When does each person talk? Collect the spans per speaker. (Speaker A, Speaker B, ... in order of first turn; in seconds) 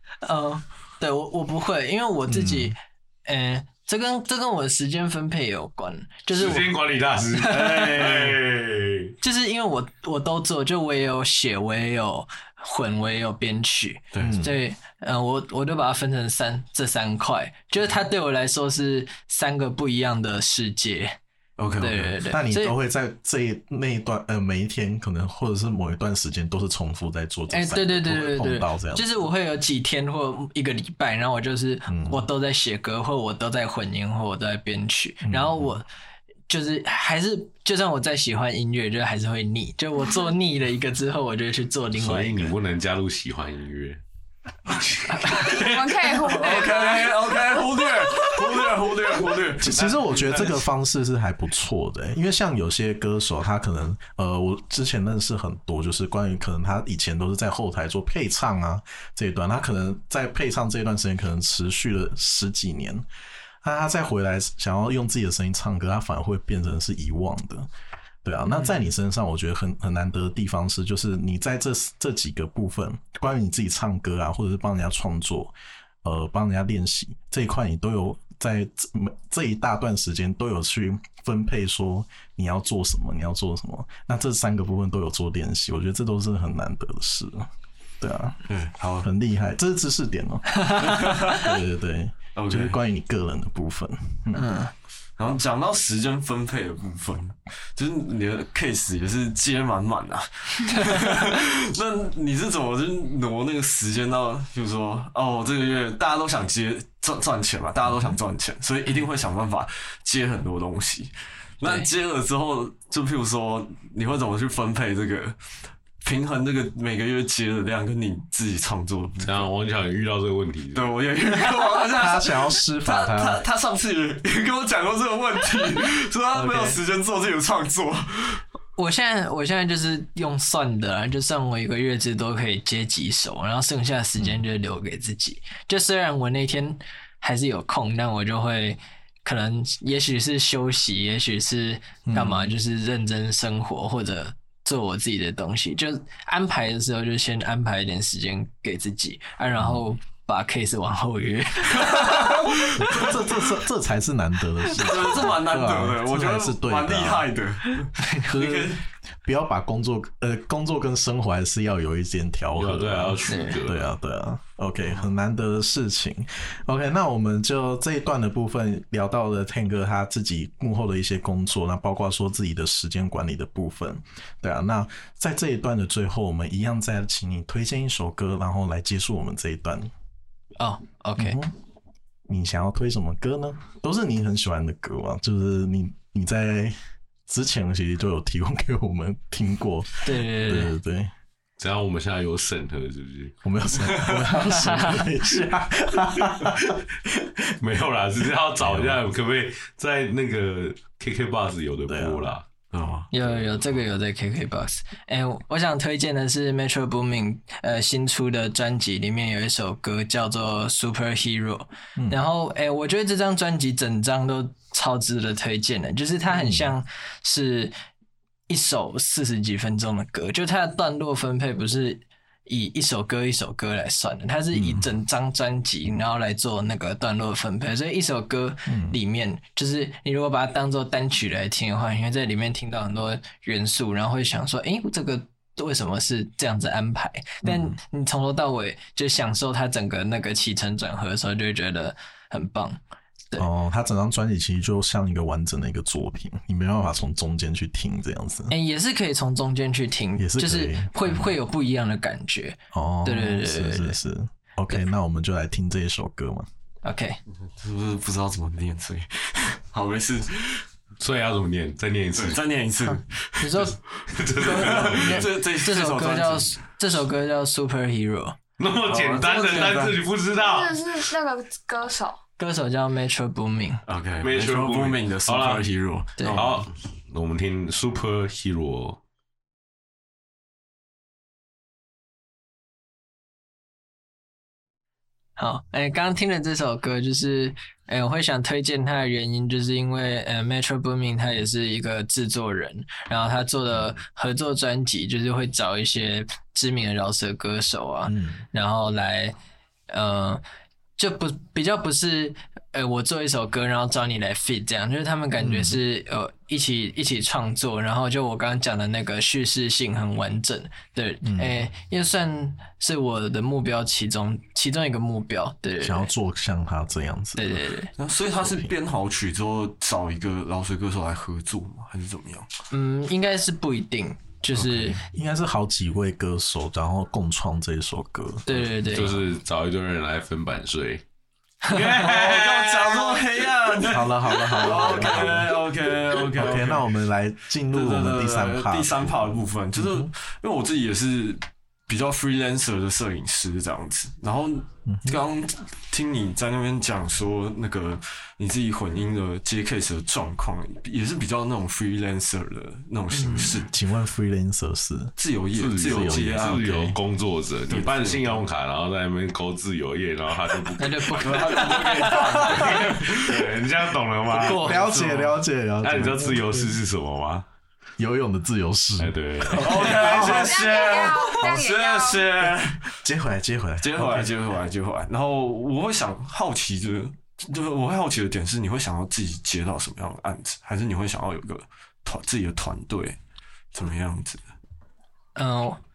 Speaker A: 0.2-6.8, 7.3-7.9, 9.2-21.2, 21.8-22.8, 27.5-35.9, 36.5-42.5, 45.1-45.5, 68.5-68.8, 90.5-90.8, 94.3-94.7, 128.8-152.4, 158.1-158.7, 163.3-163.6, 180.6-181.4, 190.1-190.7, 194.7-195.0, 203.1-217.7, 218.5-242.8, 248.5-254.0, 256.8-257.2, 263.4-263.8, 264.4-268.4, 272.4-273.8, 285.4-299.4, 299.9-300.4, 301.0-316.1, 317.4-317.9, 322.7-325.0, 328.5-329.2, 353.2-353.6, 360.8-362.2, 364.3-364.9, 385.4-385.8
Speaker B: 2.3-2.8, 14.2-14.6, 22.2-29.3, 31.9-32.2, 35.2-35.8, 49.6-63.1, 63.6-67.7, 68.2-87.5, 88.0-88.5, 89.0-94.5, 122.0-123.4, 126.3-126.8, 134.2-134.4, 142.1-142.5, 149.6-149.8, 152.8-157.3, 159.2-179.9, 181.2-181.5, 182.3-186.8, 187.3-191.1, 193.4-196.8, 198.6-199.0, 201.9-202.4, 216.3-216.7, 224.5-224.8, 228.7-229.0, 237.4-237.8, 243.4-248.5, 250.2-251.3, 252.7-256.5, 298.1-298.4, 305.4-305.8, 311.2-311.6, 315.8-317.6, 318.4-318.7, 324.6-328.7, 333.9-335.6, 336.3-340.1, 344.9-345.2, 353.6-355.1, 355.8-357.0, 364.6-366.7, 368.0-370.5, 373.0-374.3
Speaker C: 6.3-9.1, 41.9-44.0, 44.7-46.4, 49.7-50.6, 119.2-120.9, 162.6-163.9, 191.6-193.4, 197.6-202.4, 203.2-203.7, 261.0-262.4, 264.0-265.3, 268.6-271.0, 274.2-275.7, 276.2-279.0, 328.8-331.0, 331.6-333.2, 355.6-365.1, 365.8-367.5, 369.0-370.3
Speaker D: 7.4-8.4, 14.1-14.4, 21.6-22.1, 46.2-49.8, 88.5-89.1, 90.8-91.5, 92.4-92.8, 95.2-115.4, 116.0-119.5, 120.7-128.4, 151.9-153.1, 154.8-158.8, 202.7-203.1, 257.4-260.6, 262.1-263.6, 264.4-266.5, 268.9-270.0, 273.9-276.7, 318.0-322.5, 331.9-336.9, 337.7-353.7, 355.2-356.7, 357.7-358.4, 361.2-363.4, 364.8-365.3, 369.6-372.9, 373.8-383.2, 383.7-384.4
Speaker E: 45.4-47.2, 270.3-272.2, 370.0-372.3